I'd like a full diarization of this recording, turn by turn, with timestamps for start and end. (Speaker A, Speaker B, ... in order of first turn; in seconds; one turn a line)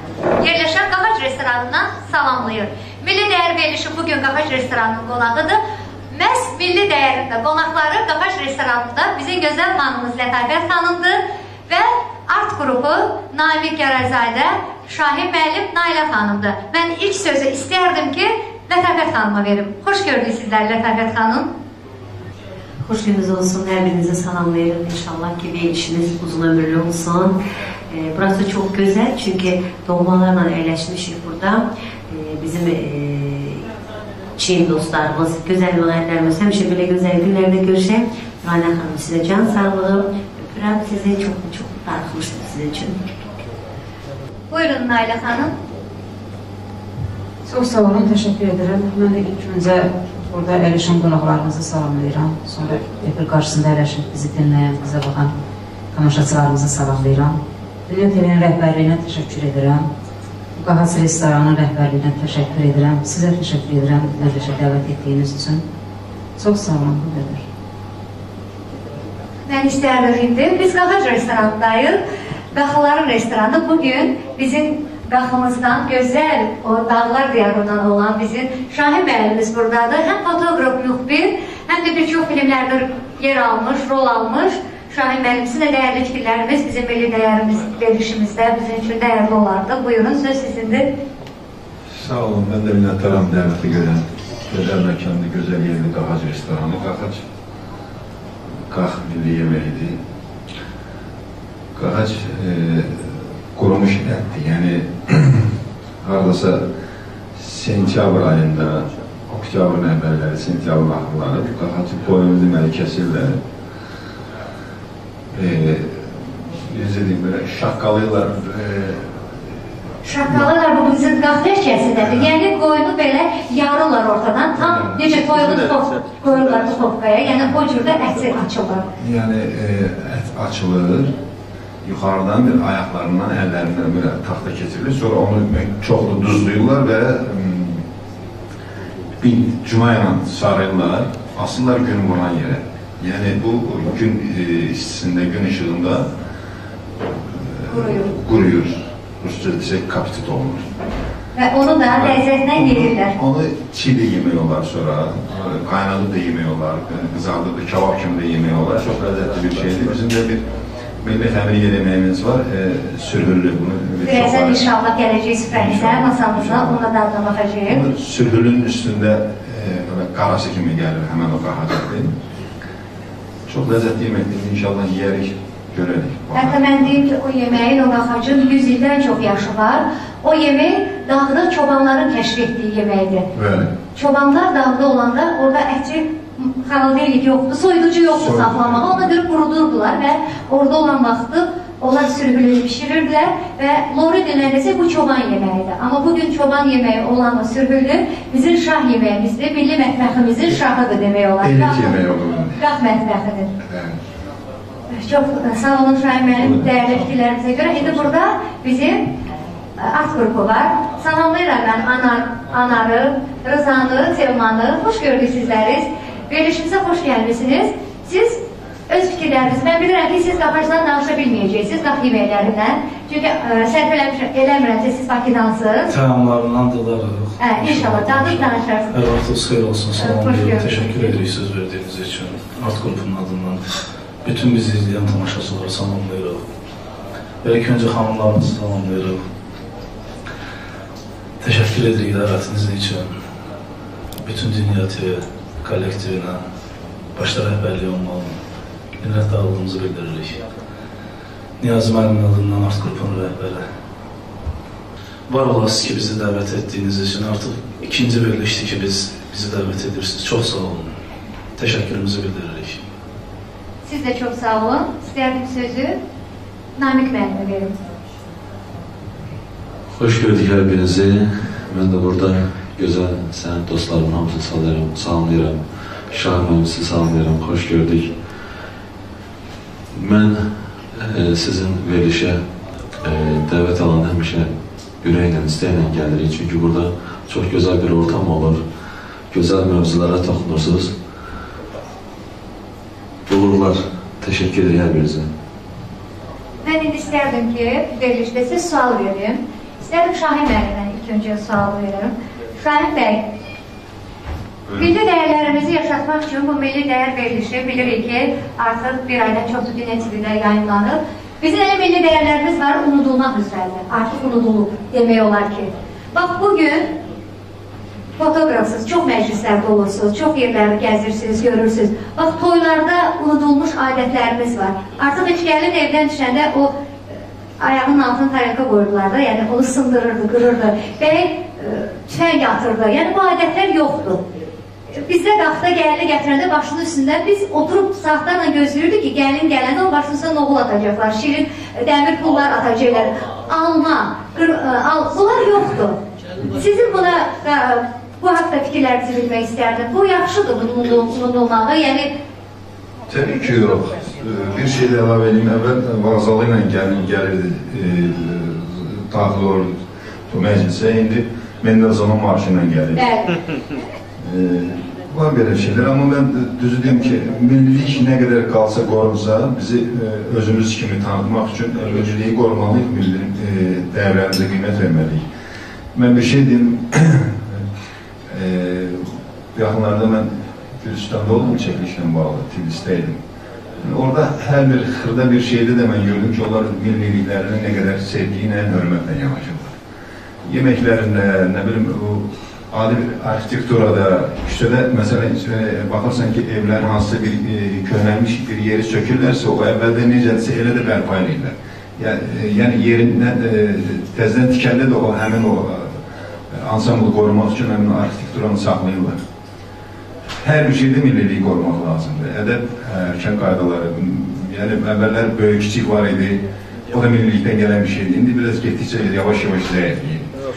Speaker A: 0.4-5.6
Speaker A: 6.1-21.5
Speaker B: 22.8-27.4
Speaker B: 27.9-33.7
Speaker B: 34.4-43.0
Speaker A: 44.5-45.5
Speaker C: 47.4-55.3
Speaker C: 55.9-59.9
Speaker C: 60.6-65.6
Speaker C: 66.4-67.4
Speaker A: 69.5-72.0
Speaker A: 72.5-90.9
Speaker D: 91.9-97.2
Speaker D: 98.7-100.0
Speaker D: 101.7-106.7
Speaker D: 107.3-113.4
Speaker D: 115.3-119.5
Speaker A: 120.0-128.9
Speaker D: 122.0-122.3
Speaker D: 129.0-131.1
Speaker D: 131.8-137.9
Speaker D: 139.2-146.1
Speaker D: 147.0-150.7
Speaker A: 147.7-148.1
Speaker A: 151.3-153.1
Speaker D: 151.9-160.4
Speaker D: 161.0-164.7
Speaker A: 164.0-167.8
Speaker D: 165.5-166.9
Speaker D: 167.7-172.2
Speaker D: 173.5-176.8
Speaker A: 176.3-183.3
Speaker D: 183.3-183.7
Speaker A: 183.9-202.0
Speaker D: 188.2-189.1
Speaker D: 201.4-202.6
Speaker A: 202.6-203.5
Speaker D: 203.6-204.0
Speaker A: 204.9-209.1
Speaker D: 206.4-206.7
Speaker A: 209.8-225.9
Speaker E: 225.9-233.6
Speaker A: 227.4-228.9
Speaker A: 229.9-231.1
Speaker E: 234.2-236.4
Speaker E: 237.4-239.2
Speaker E: 241.4-243.1
Speaker E: 244.2-246.4
Speaker E: 247.2-248.4
Speaker E: 249.0-250.4
Speaker E: 251.6-253.6
Speaker E: 255.3-260.9
Speaker E: 261.6-262.8
Speaker A: 263.8-266.0
Speaker A: 266.8-267.8
Speaker F: 269.9-278.1
Speaker F: 279.9-282.4
Speaker F: 283.0-288.6
Speaker F: 289.3-290.9
Speaker F: 293.3-295.3
Speaker A: 296.6-303.3
Speaker A: 304.8-316.9
Speaker A: 318.2-326.7
Speaker A: 327.6-334.2
Speaker A: 334.9-352.1
Speaker D: 353.1-363.2
Speaker A: 362.9-363.3
Speaker D: 364.2-375.2
Speaker D: 375.9-377.7
Speaker D: 378.3-383.2
Speaker D: 383.8-389.8
Speaker D: 390.4-409.2
Speaker D: 410.4-420.4